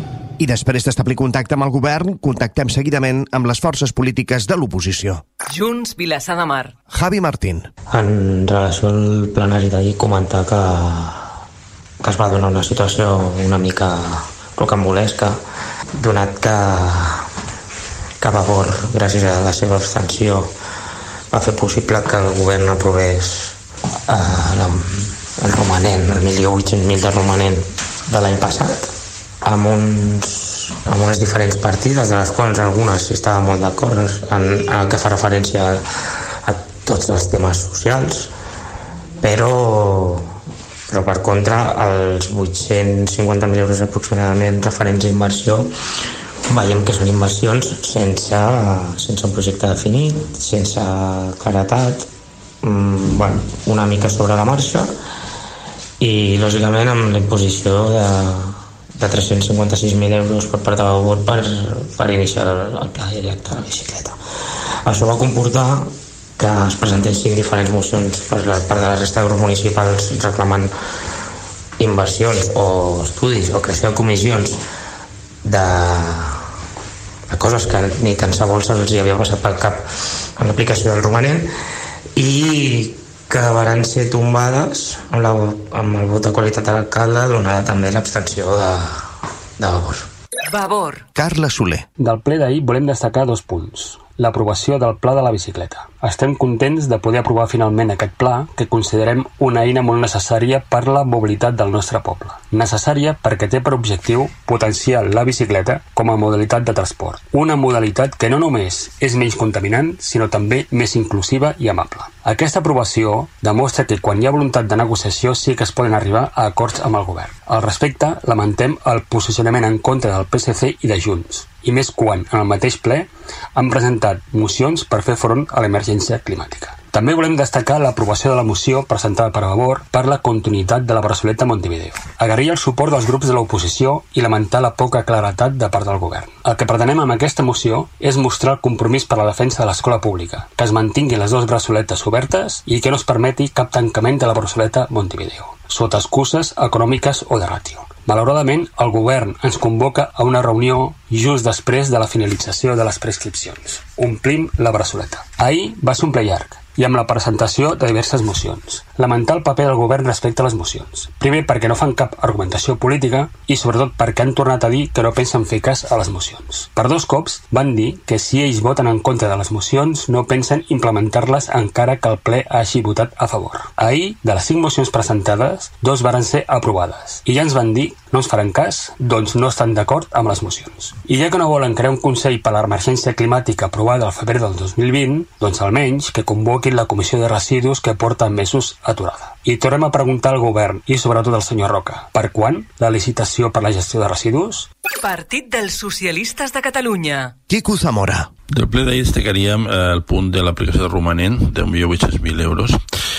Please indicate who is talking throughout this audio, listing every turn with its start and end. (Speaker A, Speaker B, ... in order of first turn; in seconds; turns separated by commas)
Speaker A: 0.4-5.2, Speaker B: 5.5-6.7, Speaker A: 6.9-7.7, Speaker C: 7.9-11.3, Speaker C: 12.0-15.4, Speaker C: 15.9-17.3, Speaker C: 18.2-20.5, Speaker C: 21.3-23.5, Speaker C: 24.1-28.9, Speaker C: 29.4-35.8, Speaker C: 36.4-38.3, Speaker C: 39.2-40.3, Speaker C: 40.9-45.7, Speaker C: 46.5-52.1, Speaker C: 52.6-54.9, Speaker C: 56.0-64.2, Speaker C: 64.8-70.7, Speaker C: 71.8-74.6, Speaker C: 75.4-76.4, Speaker C: 77.3-81.5, Speaker C: 82.2-90.1, Speaker B: 90.4-91.0, Speaker A: 91.1-91.8, Speaker D: 92.0-194.7, Speaker B: 194.9-197.3, Speaker A: 197.5-198.3, Speaker E: 198.5-202.8